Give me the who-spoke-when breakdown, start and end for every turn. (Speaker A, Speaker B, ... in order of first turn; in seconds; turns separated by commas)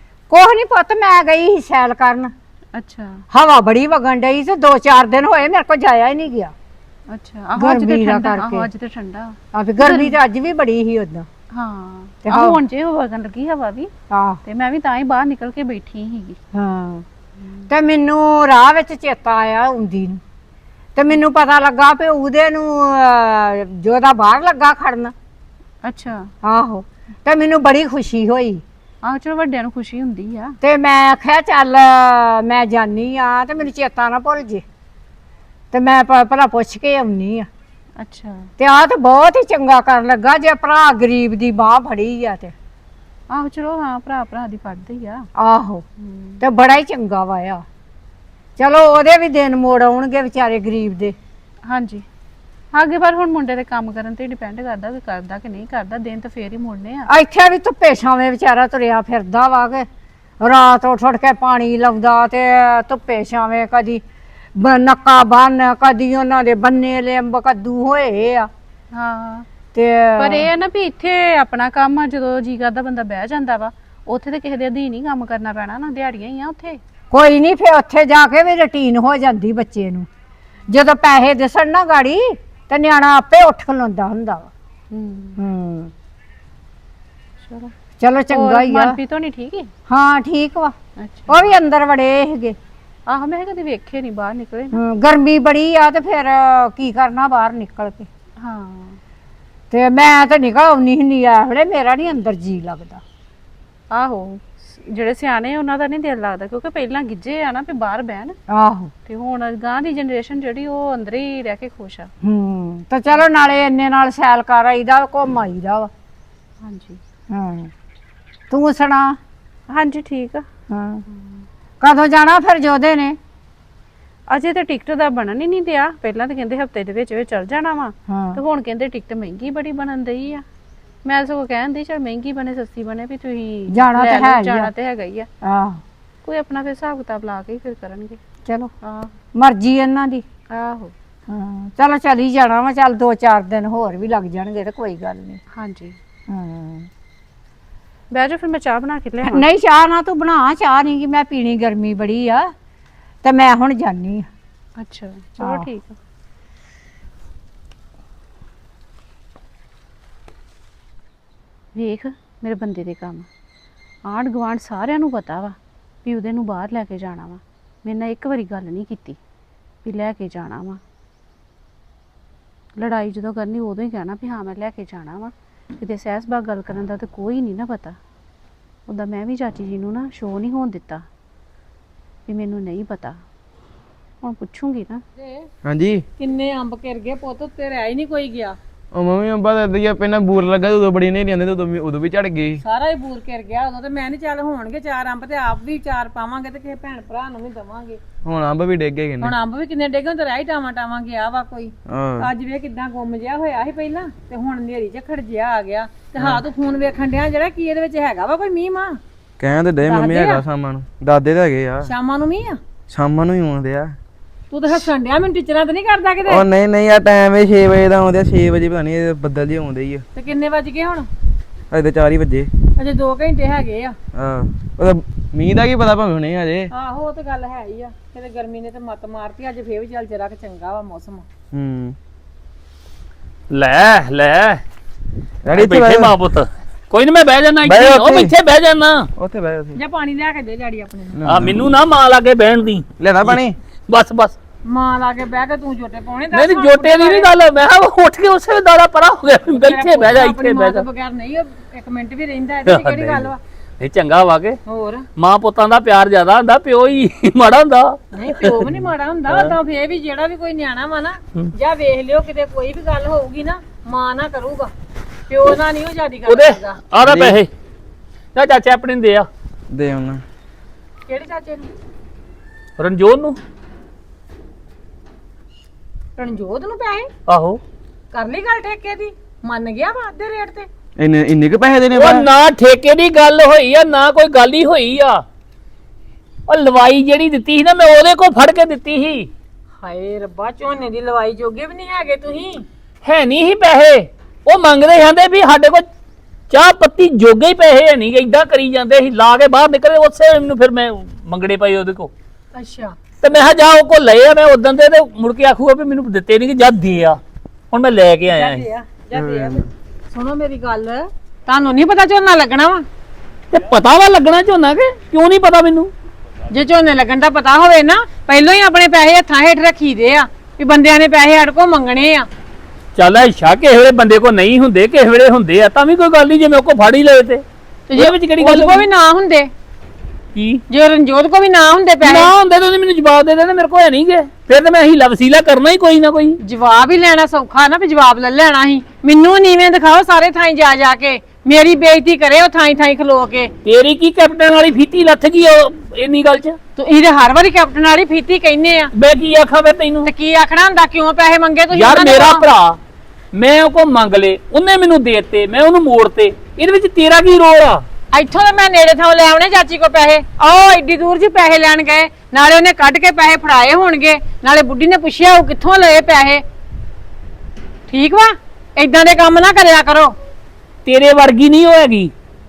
Speaker A: 0.3-2.3, Speaker B: 2.8-3.2, Speaker A: 3.3-6.5, Speaker B: 7.1-10.2, Speaker A: 7.6-8.7, Speaker A: 9.5-11.3, Speaker B: 11.5-13.9, Speaker A: 12.2-12.6, Speaker A: 14.1-14.4, Speaker B: 14.4-16.4, Speaker A: 16.5-17.0, Speaker B: 17.4-17.7, Speaker A: 17.7-20.2, Speaker A: 21.0-25.1, Speaker B: 25.8-26.3, Speaker A: 26.4-28.6, Speaker B: 29.0-30.6, Speaker A: 30.6-34.6, Speaker A: 35.7-37.5, Speaker B: 38.0-38.5, Speaker A: 38.6-42.5, Speaker B: 43.3-45.3, Speaker A: 45.4-45.8, Speaker B: 46.0-46.4, Speaker A: 46.4-47.6, Speaker A: 48.6-51.1, Speaker B: 51.7-52.0, Speaker B: 52.7-57.1, Speaker A: 57.1-59.9, Speaker A: 60.4-64.0, Speaker A: 64.6-68.5, Speaker B: 68.9-69.5, Speaker A: 69.7-70.5, Speaker B: 70.2-76.8, Speaker A: 77.1-80.1, Speaker A: 80.7-84.5, Speaker B: 84.9-85.4, Speaker A: 85.4-85.9, Speaker B: 87.4-87.7, Speaker A: 88.0-89.0, Speaker B: 88.3-89.7, Speaker A: 89.9-90.7, Speaker B: 91.0-91.5, Speaker A: 91.3-92.6, Speaker B: 93.1-94.8, Speaker A: 94.7-98.1, Speaker B: 98.4-99.0, Speaker A: 99.7-103.0, Speaker B: 103.9-108.4, Speaker A: 108.5-108.9, Speaker B: 109.1-112.1, Speaker A: 112.2-115.9, Speaker B: 116.6-117.0, Speaker A: 117.3-117.7, Speaker A: 118.5-119.2, Speaker B: 119.7-120.5, Speaker A: 120.7-121.0, Speaker A: 121.8-123.2, Speaker B: 124.3-130.4, Speaker A: 128.1-128.4, Speaker B: 131.1-135.3, Speaker A: 133.7-134.7, Speaker A: 135.4-135.8, Speaker B: 136.2-138.2, Speaker A: 138.5-138.7, Speaker B: 138.8-139.1, Speaker A: 139.3-140.2, Speaker B: 140.5-140.9, Speaker A: 141.3-145.4, Speaker B: 145.6-146.0, Speaker A: 146.3-146.9, Speaker B: 148.1-149.5, Speaker A: 149.2-152.5, Speaker A: 153.2-154.3, Speaker B: 154.8-156.0, Speaker A: 155.4-155.7, Speaker B: 161.8-163.3, Speaker B: 164.1-169.2, Speaker B: 169.8-170.8, Speaker B: 172.8-178.0, Speaker B: 178.9-181.1, Speaker B: 182.3-183.2, Speaker B: 184.2-185.0, Speaker C: 185.2-185.5, Speaker D: 185.7-186.0, Speaker C: 186.2-188.6, Speaker D: 188.9-192.6, Speaker C: 192.6-198.0, Speaker D: 198.2-199.3, Speaker C: 199.2-209.0, Speaker D: 201.9-202.3, Speaker D: 206.2-206.4, Speaker D: 209.4-211.9, Speaker C: 209.8-210.4, Speaker C: 211.9-212.6, Speaker D: 212.9-214.0, Speaker C: 214.5-216.4, Speaker D: 216.3-220.0, Speaker C: 220.2-221.1, Speaker D: 221.7-222.5, Speaker C: 222.8-224.0, Speaker D: 224.2-226.7, Speaker C: 226.7-231.3, Speaker D: 231.5-232.0, Speaker E: 233.5-234.6, Speaker D: 235.5-236.2, Speaker E: 235.5-239.1, Speaker D: 237.7-238.3, Speaker D: 239.2-239.8, Speaker C: 239.8-241.2, Speaker D: 241.2-241.6, Speaker E: 241.3-244.4, Speaker D: 243.0-243.6, Speaker C: 244.6-247.3, Speaker E: 246.4-250.9, Speaker C: 249.5-253.4, Speaker E: 252.7-254.6, Speaker C: 254.7-255.1, Speaker E: 255.2-259.6, Speaker C: 258.1-264.7, Speaker C: 265.3-266.8, Speaker E: 266.3-267.5, Speaker D: 267.0-267.4, Speaker E: 268.4-269.3, Speaker D: 269.7-270.2, Speaker C: 271.1-271.7, Speaker E: 272.8-273.4, Speaker C: 276.2-277.1, Speaker E: 277.3-277.6, Speaker C: 278.1-280.7, Speaker D: 281.0-282.3, Speaker E: 281.9-285.2, Speaker E: 286.5-289.3, Speaker C: 289.8-292.7, Speaker E: 293.0-295.9, Speaker E: 296.5-302.1, Speaker C: 302.5-303.0, Speaker E: 303.2-307.2, Speaker E: 307.7-308.7, Speaker C: 308.3-312.9, Speaker E: 313.5-315.9, Speaker C: 316.5-322.3, Speaker E: 323.0-327.4, Speaker C: 327.9-329.5, Speaker E: 327.9-328.9, Speaker E: 330.4-330.6, Speaker C: 330.7-332.3, Speaker E: 332.0-336.4, Speaker C: 336.4-343.5, Speaker E: 343.6-346.6, Speaker C: 346.8-348.9, Speaker E: 348.9-350.1, Speaker C: 350.1-352.5, Speaker E: 351.7-352.8, Speaker E: 353.3-357.8, Speaker C: 358.1-366.4, Speaker C: 367.9-370.2, Speaker E: 370.9-372.1